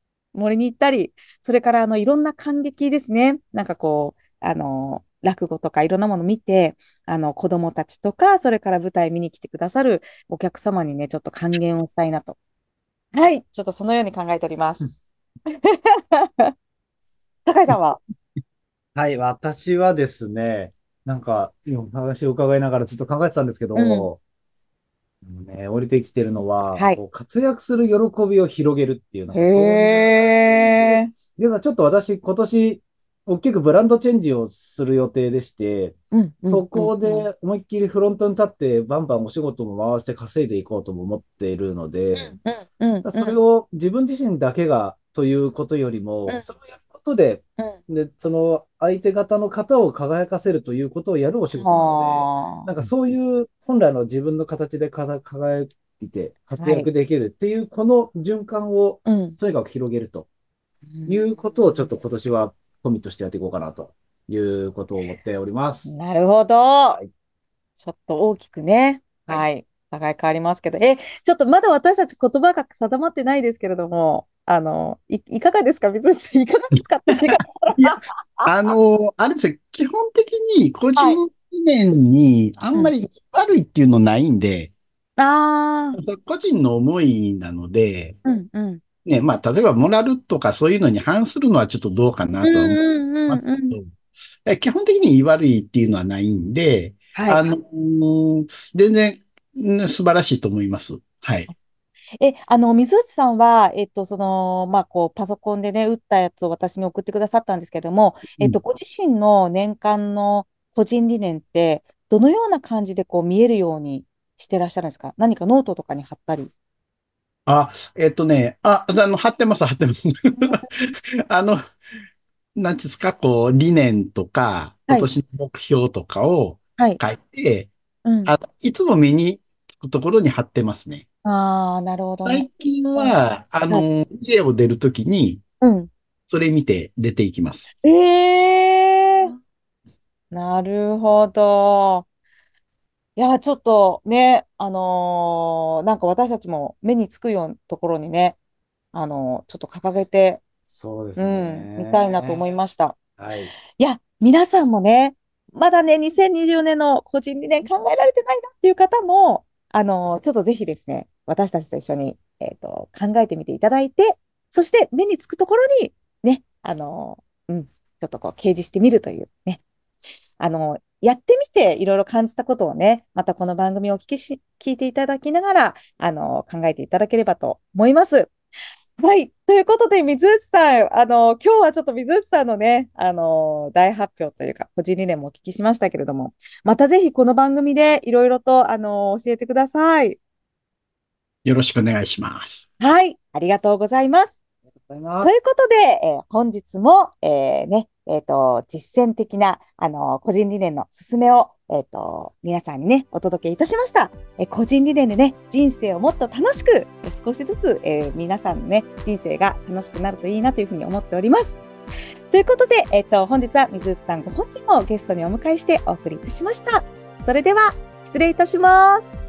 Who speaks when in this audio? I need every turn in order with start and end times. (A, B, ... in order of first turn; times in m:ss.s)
0:00.3-0:12.4 A
0:13.1-0:15.0 A
0:15.6-0:16.5 A
0:17.4-0:18.0 A
0:19.0-0:24.2 B
0:23.8-0:24.1 A
0:25.2-0:30.4 B
0:29.3-0:31.1 A
0:30.9-0:42.4 B
0:36.1-0:37.3 A
0:42.2-0:43.4 A
0:43.0-1:00.3 B
0:51.6-0:52.7 A
0:56.6-0:56.9 A
0:59.0-0:59.4 A
1:00.9-1:01.9 A
1:01.1-1:05.9 B
1:05.9-1:07.0 A
1:07.8-1:18.7 A
1:17.3-1:24.7 C
1:25.2-1:26.0 A
1:26.0-1:28.2 C
1:28.2-1:28.8 A
1:29.0-1:33.9 C
1:32.4-1:33.8 A
1:34.4-1:41.5 C
1:37.1-1:37.5 A
1:42.2-1:56.5 A
1:57.5-2:01.6 C
2:00.4-2:00.7 A
2:02.6-2:07.7 C
2:08.0-2:08.3 A
2:08.3-2:11.0 C
2:11.2-2:13.9 A
2:12.2-2:15.4 C
2:15.6-2:15.9 A
2:16.3-2:17.7 C
2:17.8-2:19.3 A
2:20.3-2:22.0 A
2:23.2-2:28.4 A
2:28.9-2:30.4 A
2:30.7-2:32.4 B
2:31.2-2:33.0 A
2:33.2-2:33.5 B
2:33.8-2:49.6 A
2:50.4-2:58.3 A
2:59.0-3:10.2 A
3:11.4-3:12.7 C
3:12.8-3:14.4 A
3:14.8-3:15.3 B
3:15.2-3:31.6 A
3:32.3-3:39.1 A